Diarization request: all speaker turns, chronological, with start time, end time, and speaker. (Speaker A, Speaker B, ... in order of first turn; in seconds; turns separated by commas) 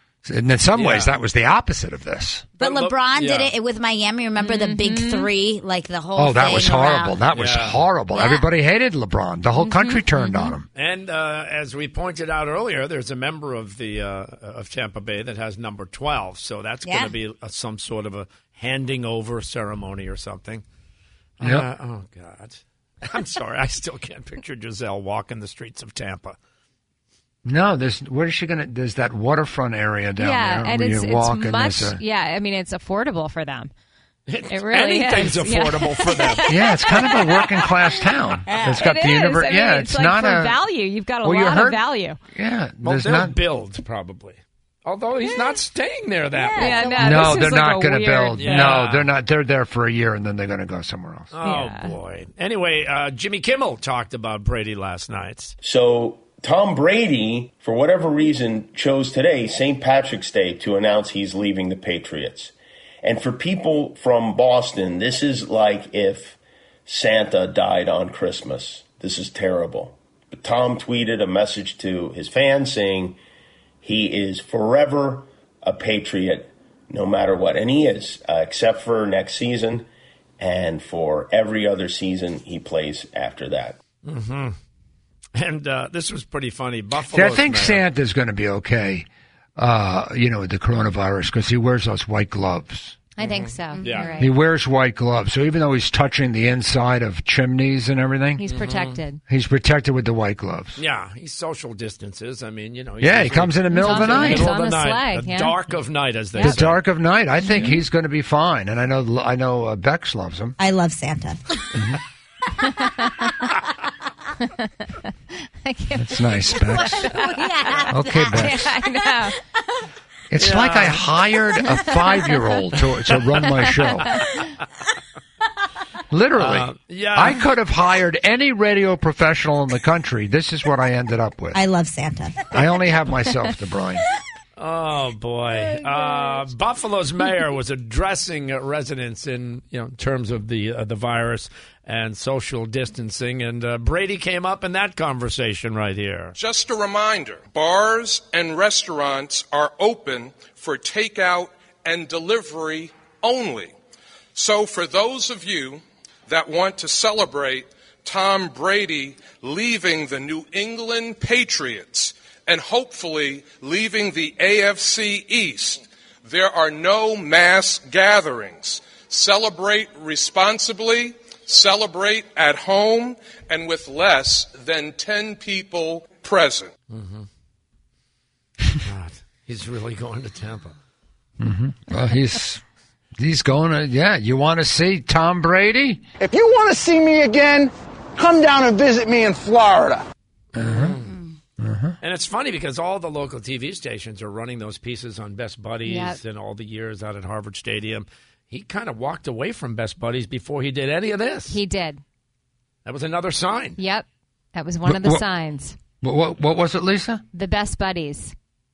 Speaker A: 0.2-2.5, Speaker B: 0.7-1.1, Speaker C: 2.6-7.2, Speaker B: 2.6-3.6, Speaker D: 4.4-5.3, Speaker A: 6.2-10.7, Speaker B: 7.3-7.8, Speaker C: 8.1-8.5, Speaker D: 9.6-10.6, Speaker B: 10.7-20.6, Speaker C: 16.9-17.1, Speaker B: 21.4-26.4, Speaker A: 21.4-21.7, Speaker A: 27.4-32.0, Speaker D: 30.2-33.7, Speaker B: 34.3-36.5, Speaker D: 34.5-37.5, Speaker A: 36.5-40.6, Speaker C: 38.5-38.8, Speaker D: 38.7-42.2, Speaker A: 41.2-43.4, Speaker B: 42.8-46.8, Speaker C: 46.3-47.4, Speaker D: 46.5-48.8, Speaker A: 47.0-51.3, Speaker B: 48.4-49.1, Speaker B: 51.3-55.6, Speaker D: 51.4-52.0, Speaker E: 55.6-73.2, Speaker E: 73.8-79.9, Speaker E: 80.4-83.8, Speaker B: 84.0-84.6, Speaker B: 85.3-87.9, Speaker A: 87.1-93.0, Speaker D: 93.2-94.3, Speaker B: 93.2-94.3, Speaker A: 94.2-98.5, Speaker D: 98.4-99.2, Speaker B: 98.5-99.0, Speaker A: 99.3-100.8, Speaker B: 100.8-106.8, Speaker A: 103.0-104.5, Speaker D: 103.7-105.6, Speaker D: 106.3-106.6, Speaker A: 106.4-110.5, Speaker B: 107.4-107.8, Speaker C: 110.6-111.4, Speaker D: 112.7-113.3, Speaker D: 115.6-119.4, Speaker A: 116.0-117.2, Speaker A: 117.9-118.7, Speaker A: 120.3-124.2, Speaker B: 120.4-121.0, Speaker A: 126.1-131.6, Speaker B: 126.4-127.4, Speaker C: 131.5-132.5, Speaker A: 132.5-134.0, Speaker B: 134.6-146.3, Speaker F: 146.4-153.7, Speaker F: 154.3-176.7, Speaker B: 176.9-177.3, Speaker B: 178.8-180.8, Speaker A: 181.4-182.6, Speaker A: 183.2-186.0, Speaker G: 186.2-190.1, Speaker A: 190.6-191.0, Speaker B: 190.6-191.1, Speaker A: 191.6-192.0, Speaker B: 192.0-201.6, Speaker D: 195.8-196.2, Speaker D: 201.5-202.0, Speaker B: 202.8-203.8, Speaker D: 203.8-205.8, Speaker A: 204.8-205.2, Speaker A: 206.0-207.2, Speaker D: 207.3-208.3